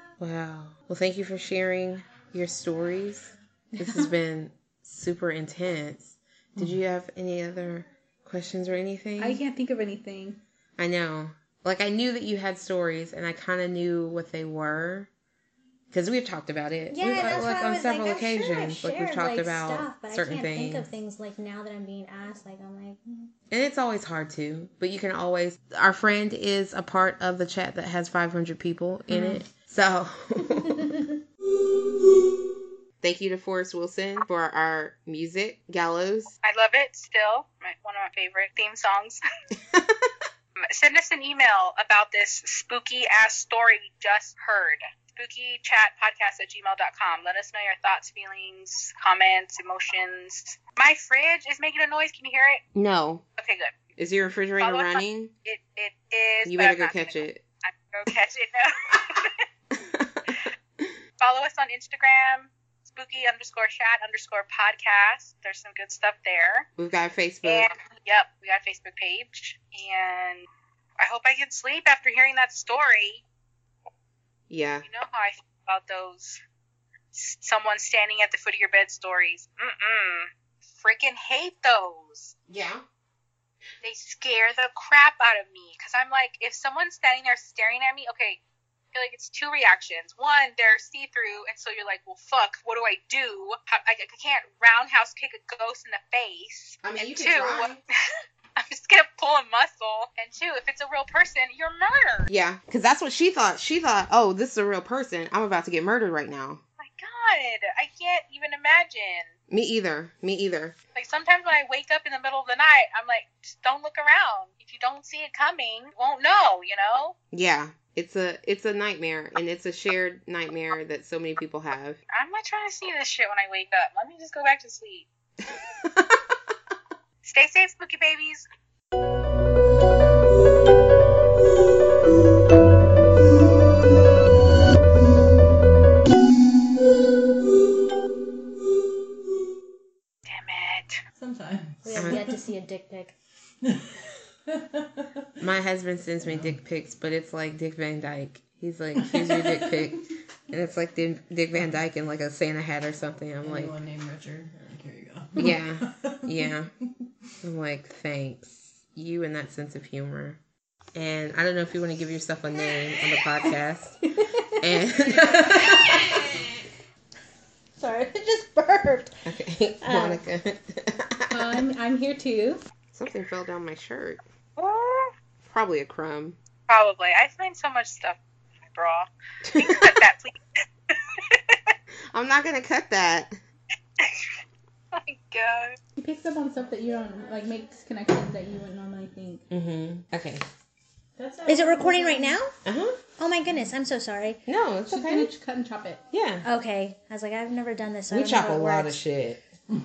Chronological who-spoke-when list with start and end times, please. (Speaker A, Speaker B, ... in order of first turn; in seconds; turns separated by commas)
Speaker A: 0.2-9.4, Speaker B: 3.8-4.1, Speaker B: 9.2-10.4, Speaker A: 10.8-15.1, Speaker A: 15.9-20.9, Speaker C: 16.9-23.3, Speaker A: 23.5-30.9, Speaker A: 33.0-36.4, Speaker D: 36.4-39.2, Speaker A: 39.7-40.0, Speaker D: 40.6-52.6, Speaker A: 52.7-53.2, Speaker D: 53.4-53.8, Speaker A: 54.0-55.3, Speaker D: 54.6-59.4, Speaker A: 56.5-57.4, Speaker A: 59.7-60.9, Speaker D: 61.2-66.7, Speaker A: 66.8-67.7, Speaker D: 67.4-70.5, Speaker D: 71.0-73.2, Speaker A: 74.5-74.8, Speaker D: 74.8-76.4, Speaker D: 77.1-82.3, Speaker A: 82.5-82.8, Speaker D: 83.8-88.4, Speaker D: 88.9-97.8, Speaker A: 96.8-97.8, Speaker D: 98.6-102.3, Speaker A: 102.3-106.6, Speaker D: 106.8-109.3, Speaker A: 109.5-110.7, Speaker D: 110.9-117.1, Speaker A: 117.3-122.0, Speaker D: 122.1-125.1, Speaker A: 125.5-126.5, Speaker D: 127.2-128.4, Speaker D: 140.3-141.0, Speaker E: 141.1-142.4, Speaker C: 141.8-143.1, Speaker A: 141.9-142.2, Speaker E: 143.6-145.3, Speaker A: 145.4-153.7, Speaker E: 146.2-146.5, Speaker E: 149.0-149.9, Speaker E: 153.4-156.5, Speaker A: 155.4-156.7, Speaker A: 157.4-160.4, Speaker A: 160.9-164.0, Speaker A: 164.6-166.6, Speaker C: 167.8-169.1, Speaker B: 168.1-168.9, Speaker A: 169.2-171.7, Speaker C: 169.9-170.2, Speaker B: 171.3-172.6, Speaker A: 172.9-174.2, Speaker D: 174.6-175.1, Speaker A: 175.4-176.4, Speaker D: 176.7-178.2, Speaker D: 178.7-181.7, Speaker A: 179.4-179.9, Speaker A: 182.1-183.4, Speaker D: 184.0-184.4, Speaker D: 184.9-185.8, Speaker B: 186.0-189.4, Speaker A: 189.5-190.4, Speaker E: 191.2-192.4, Speaker C: 191.4-192.5, Speaker A: 192.6-193.0, Speaker C: 193.2-194.4, Speaker A: 194.5-195.3, Speaker B: 194.9-196.0, Speaker A: 196.1-196.4, Speaker C: 196.4-199.0, Speaker A: 198.1-199.4